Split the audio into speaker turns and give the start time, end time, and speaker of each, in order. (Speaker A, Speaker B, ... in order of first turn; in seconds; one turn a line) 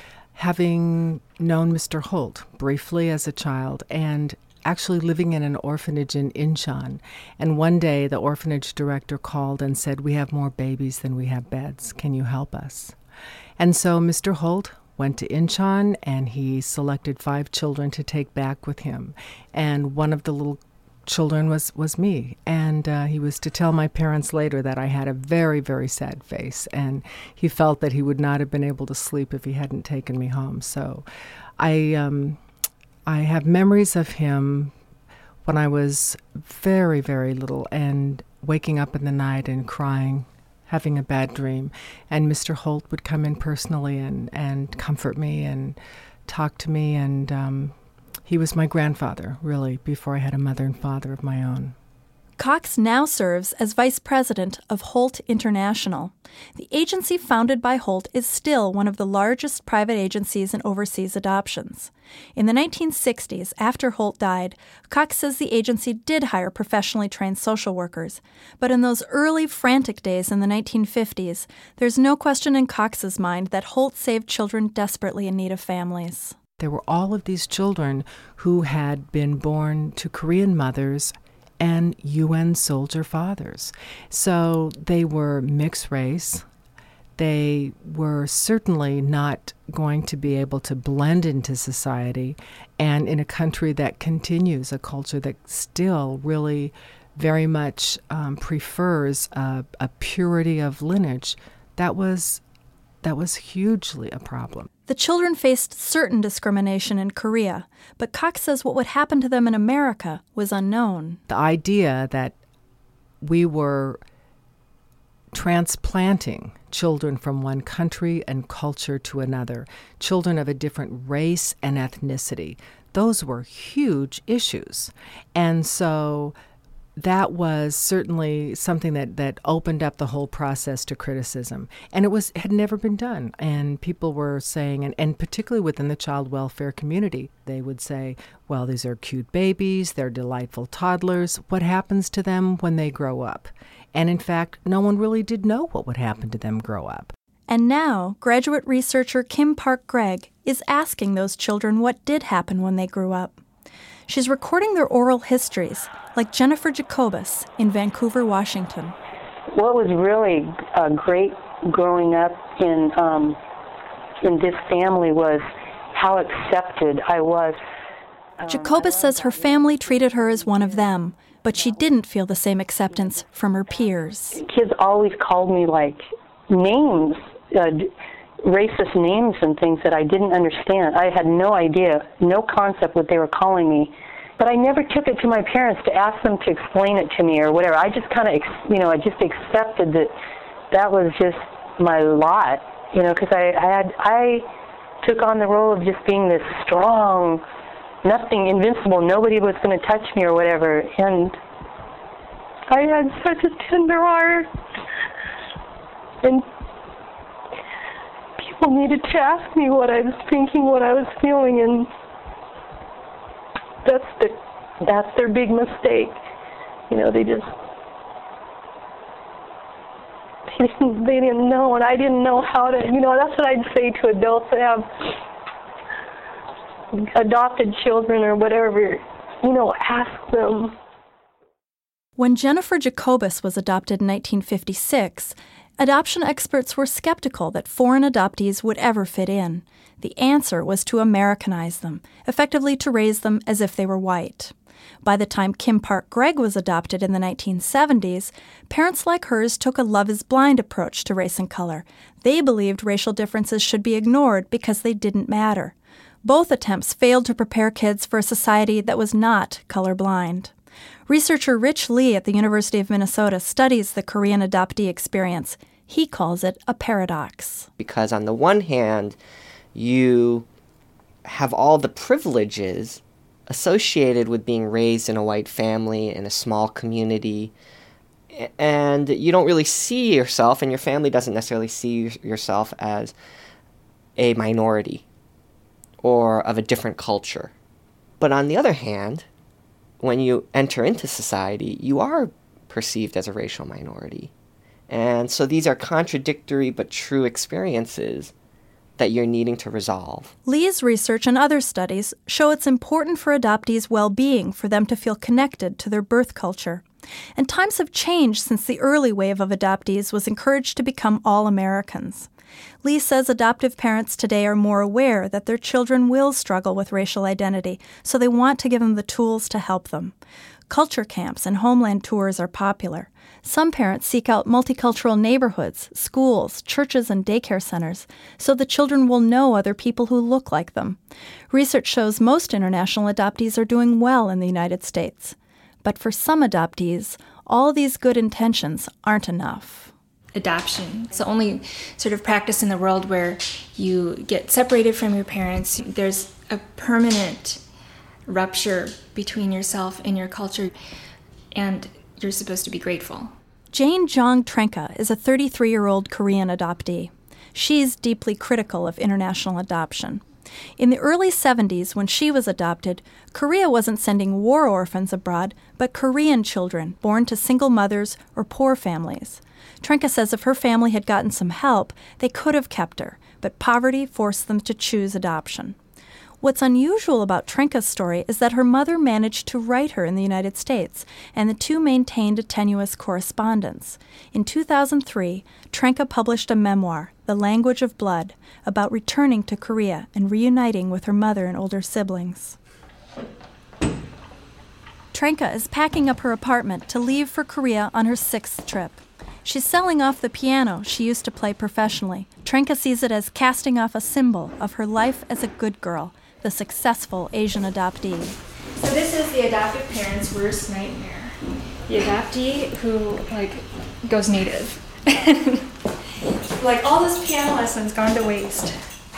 Speaker A: 0.3-13.0
Speaker A: 13.6-31.1
Speaker A: 31.6-32.4
Speaker A: 33.1-34.7
Speaker A: 35.5-51.8
Speaker B: 52.4-76.4
Speaker A: 76.6-86.5
Speaker A: 87.2-102.4
Speaker A: 103.0-104.7
Speaker B: 104.9-111.2
Speaker A: 111.3-112.4
Speaker A: 113.2-114.0
Speaker A: 115.3-126.3
Speaker A: 127.0-147.1
Speaker B: 147.5-153.4
Speaker B: 154.1-159.0
Speaker C: 159.5-163.4
Speaker C: 164.2-167.6
Speaker B: 168.5-174.4
Speaker C: 174.4-177.9
Speaker C: 178.4-190.1
Speaker C: 190.7-194.5
Speaker C: 195.0-197.4
Speaker C: 198.0-201.3
Speaker C: 202.7-204.5
Speaker C: 208.4-211.9
Speaker C: 213.8-216.2
Speaker C: 216.9-217.5
Speaker C: 220.5-224.9
Speaker C: 226.9-230.8
Speaker B: 232.2-260.5
Speaker B: 261.1-267.7
Speaker D: 267.8-269.2
Speaker D: 269.8-270.5
Speaker D: 271.2-277.5
Speaker D: 278.3-283.1
Speaker D: 284.2-285.1
Speaker D: 286.0-287.5
Speaker D: 288.2-289.3
Speaker D: 290.0-294.3
Speaker D: 294.9-298.3
Speaker D: 299.0-300.3
Speaker B: 300.4-312.3
Speaker B: 312.8-320.2
Speaker B: 320.7-339.9
Speaker E: 340.4-347.6
Speaker E: 348.3-350.8
Speaker E: 351.5-353.4
Speaker B: 353.7-360.2
Speaker B: 360.8-375.8
Speaker B: 376.4-392.6
Speaker B: 395.1-408.4
Speaker E: 408.8-415.7
Speaker E: 416.6-418.8